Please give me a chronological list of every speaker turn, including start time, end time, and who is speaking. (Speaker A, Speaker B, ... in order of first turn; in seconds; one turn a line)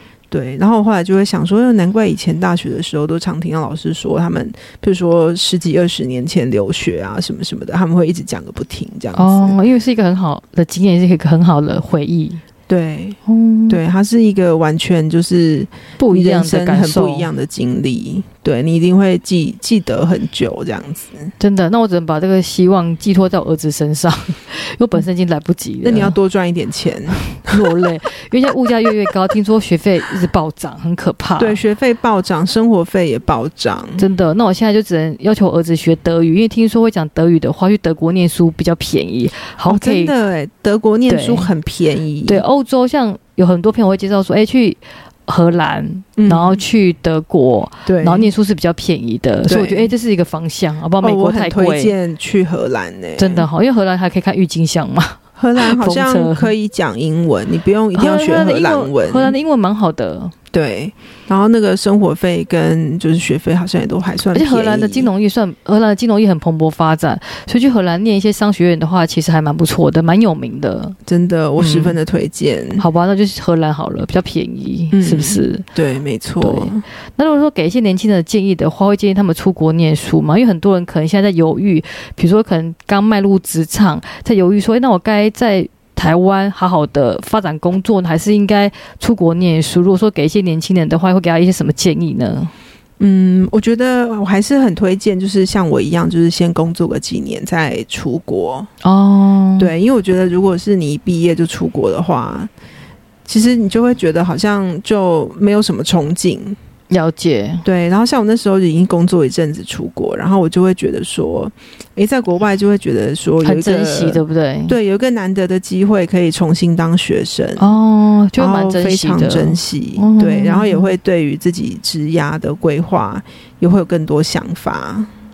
Speaker A: 0.3-9.6
Speaker B: 9.1-12.4
Speaker A: 12.7-21.3
Speaker B: 13.2-13.8
Speaker B: 16.0-17.3
Speaker B: 21.4-26.2
Speaker A: 25.8-27.6
Speaker B: 27.4-31.6
Speaker A: 31.4-34.0
Speaker B: 34.0-40.1
Speaker A: 39.6-42.4
Speaker B: 41.1-41.5
Speaker B: 42.3-51.9
Speaker A: 46.2-46.6
Speaker A: 47.8-48.3
Speaker A: 49.5-49.9
Speaker A: 51.0-53.5
Speaker B: 53.2-56.5
Speaker A: 55.4-59.4
Speaker B: 57.9-60.3
Speaker A: 60.5-65.1
Speaker B: 64.3-71.0
Speaker A: 71.0-72.8
Speaker B: 71.6-72.0
Speaker B: 72.8-75.6
Speaker A: 74.9-76.8
Speaker B: 76.4-92.5
Speaker A: 93.0-98.7
Speaker B: 98.8-99.7
Speaker A: 99.6-102.5
Speaker A: 103.2-106.6
Speaker B: 106.9-107.6
Speaker A: 107.6-117.7
Speaker B: 113.4-114.8
Speaker B: 117.6-120.9
Speaker A: 118.4-125.1